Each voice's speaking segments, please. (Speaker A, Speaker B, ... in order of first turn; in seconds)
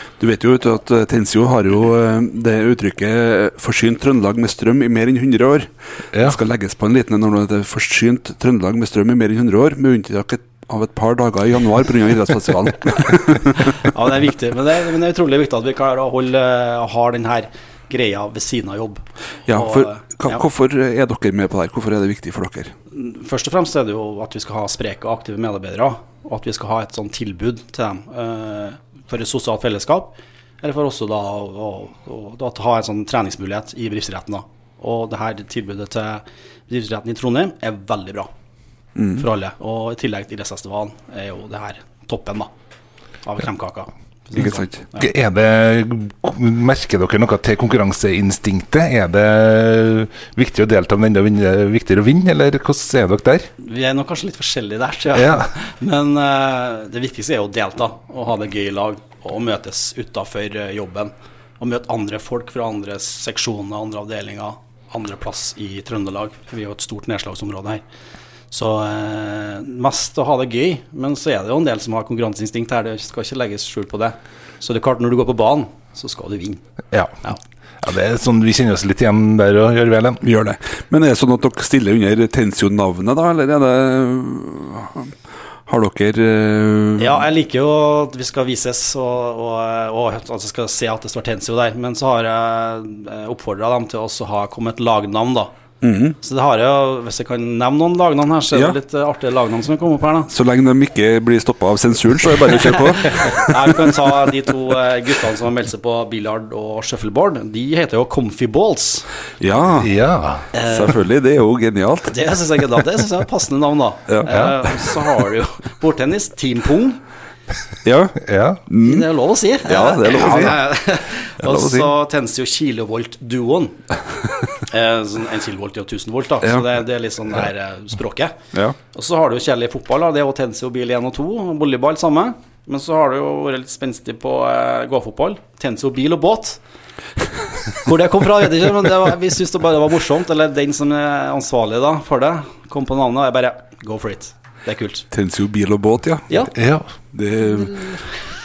Speaker A: 0.2-13.8, 19.5-22.7, 39.0-39.3, 44.4-44.9, 80.2-85.1, 85.7-87.2, 95.8-96.2, 98.5-98.8, 100.3-103.8, 109.4-110.0, 110.7-112.2, 114.1-114.3, 117.8-119.1, 119.7-120.7, 121.4-121.9, 145.1-146.4, 147.1-147.9
Speaker B: 13.7-20.4, 22.9-38.3, 39.2-42.5, 43.2-45.1, 53.6-67.8, 68.5-76.6, 87.0-95.5, 96.2-100.3, 102.8-109.1, 110.5-111.0, 112.1-117.0, 118.8-123.8, 124.6-128.4, 128.9-136.6, 137.8-145.1, 146.3-146.5, 147.6-148.1
Speaker C: 45.0-53.5, 55.1-55.5, 76.9-80.2, 109.8-110.5, 114.3-114.6, 118.2-118.6, 146.5-146.9